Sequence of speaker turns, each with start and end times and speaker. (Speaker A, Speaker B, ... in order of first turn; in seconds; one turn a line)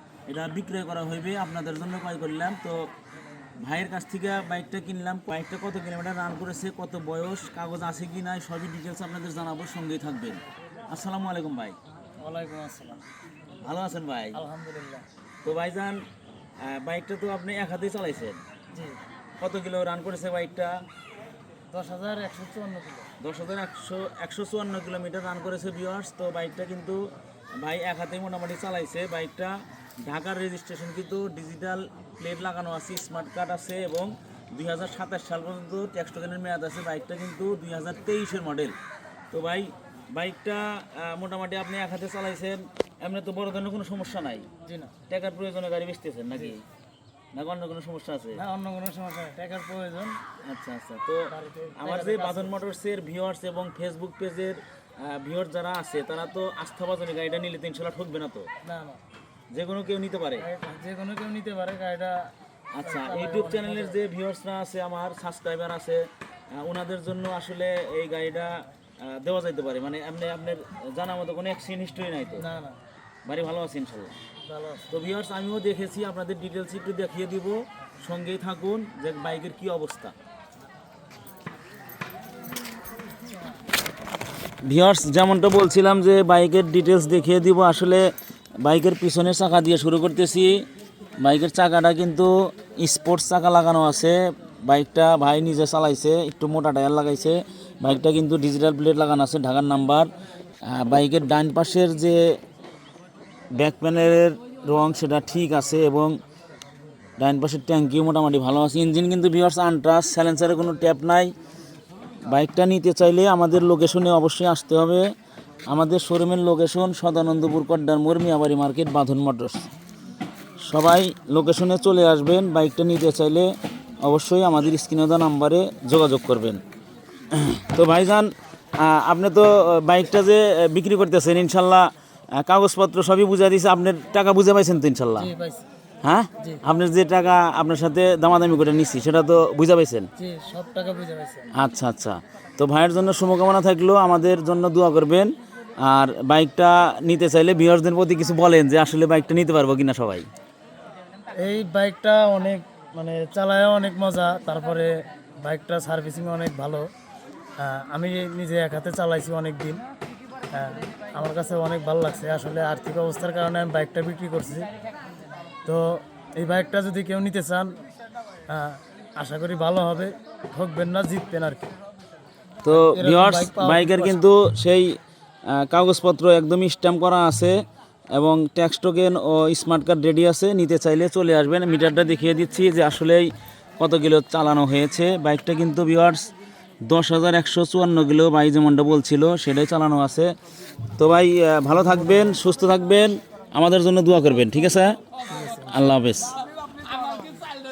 Speaker A: 0.3-2.9
Speaker A: 3.6-11.8
Speaker B: 12.2-13.0
Speaker A: 13.6-14.4
Speaker B: 14.3-15.1
Speaker A: 15.4-16.0
Speaker A: 16.6-18.4
Speaker B: 18.7-19.0
Speaker A: 19.4-20.8
Speaker B: 21.7-23.1
Speaker A: 23.2-27.0
Speaker A: 27.6-38.8
Speaker A: 39.3-44.5
Speaker B: 44.7-45.0
Speaker A: 45.1-46.6
Speaker A: 47.4-48.4
Speaker B: 48.4-50.2
Speaker A: 50.4-58.5
Speaker B: 51.3-52.6
Speaker B: 58.6-59.0
Speaker A: 59.5-60.5
Speaker B: 60.4-62.3
Speaker A: 62.7-72.5
Speaker B: 62.8-64.0
Speaker B: 72.3-72.8
Speaker A: 73.3-74.1
Speaker B: 74.5-75.0
Speaker A: 74.9-80.1
Speaker A: 84.6-88.0
Speaker A: 88.6-90.6
Speaker A: 91.2-100.1
Speaker A: 100.7-102.3
Speaker A: 103.6-106.2
Speaker A: 107.2-111.3
Speaker A: 112.3-115.1
Speaker A: 115.7-119.7
Speaker A: 120.7-126.6
Speaker A: 127.3-135.3
Speaker B: 135.2-135.7
Speaker A: 136.0-140.1
Speaker B: 140.2-141.5
Speaker A: 141.5-150.3
Speaker B: 151.3-156.9
Speaker B: 157.6-159.8
Speaker B: 160.5-164.7
Speaker B: 165.7-167.7
Speaker B: 168.5-171.7
Speaker A: 172.6-175.0
Speaker B: 172.7-174.2
Speaker A: 175.5-177.6
Speaker A: 178.2-186.3
Speaker A: 186.9-190.3
Speaker A: 191.0-196.4
Speaker B: 191.8-192.3
Speaker B: 195.3-195.7